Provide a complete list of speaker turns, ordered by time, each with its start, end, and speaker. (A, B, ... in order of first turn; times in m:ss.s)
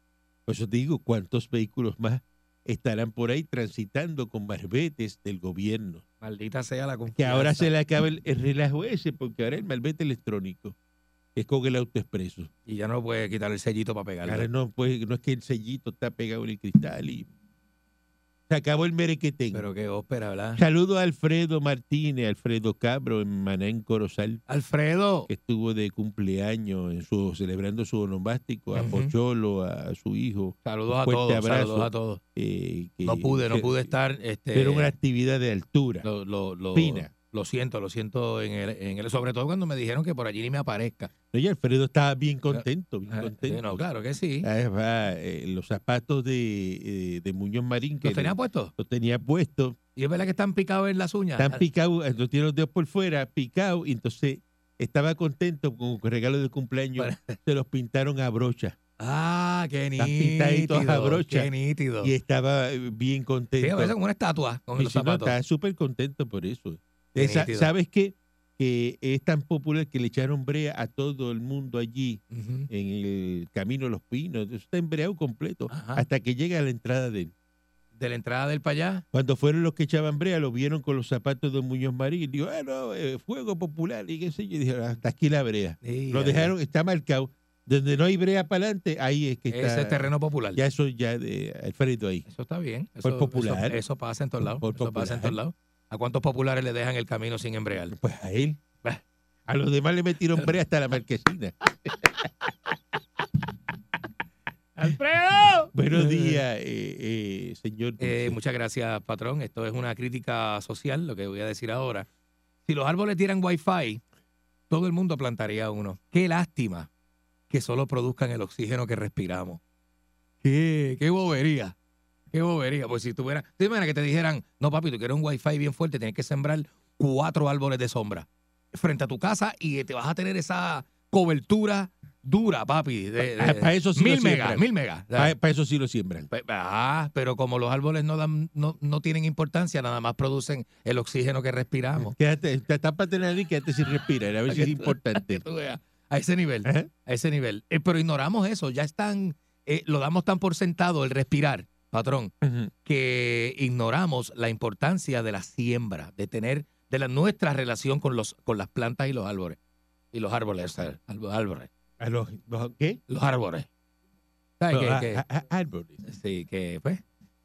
0:00.5-0:06.0 A
0:06.2-0:07.7 B
0:07.1-0:10.7 A
0:11.4-0:12.5 A
0:12.6-0:14.5 B
0:14.2-0:17.3 A
0:18.5-0:19.7 A
0:19.5-0:20.6 B
0:20.5-0:24.4 A
0:24.5-0:25.3 B
0:25.3-0:33.9 A
0:28.7-0:29.1 B
0:30.6-0:32.2 B
0:33.0-0:34.9 B
0:34.5-0:36.0 A
0:36.0-0:41.1 B
0:36.7-0:37.1 A
0:41.3-0:43.8 A
0:42.5-0:44.5 B
0:44.4-0:49.8 A
0:48.0-0:48.7 B
0:50.0-0:51.6 B
0:51.4-0:58.8 A
0:57.0-0:57.4 B
0:59.0-1:02.1 B
1:00.0-1:04.0 A
1:03.6-1:05.4 B
1:04.8-1:17.3 A
1:07.2-1:07.7 B
1:12.3-1:12.7 B
1:15.7-1:16.0 B
1:17.9-1:19.0 B
1:19.1-1:32.2 A
1:25.8-1:26.5 B
1:29.5-1:30.6 B
1:32.2-1:37.9 B
1:33.0-1:33.8 A
1:34.6-1:35.4 A
1:37.9-1:38.6 A
1:39.5-1:41.5 A
1:44.8-1:46.4 B
1:45.7-1:48.4 A
1:48.0-1:52.1 B
1:52.6-1:54.0 B
1:54.7-1:56.9 B
1:57.5-1:59.6 B
2:00.4-2:01.7 B
2:02.3-2:15.3 B
2:13.2-2:16.3 A
2:16.3-2:22.1 B
2:22.0-2:25.4 A
2:24.5-2:32.3 B
2:26.6-2:26.9 A
2:32.4-2:32.7 A
2:32.8-2:39.6 B
2:40.1-2:41.7 B
2:42.0-2:43.0 A
2:43.1-2:43.7 B
2:44.6-2:45.2 B
2:44.7-2:46.0 A
2:46.0-2:47.0 B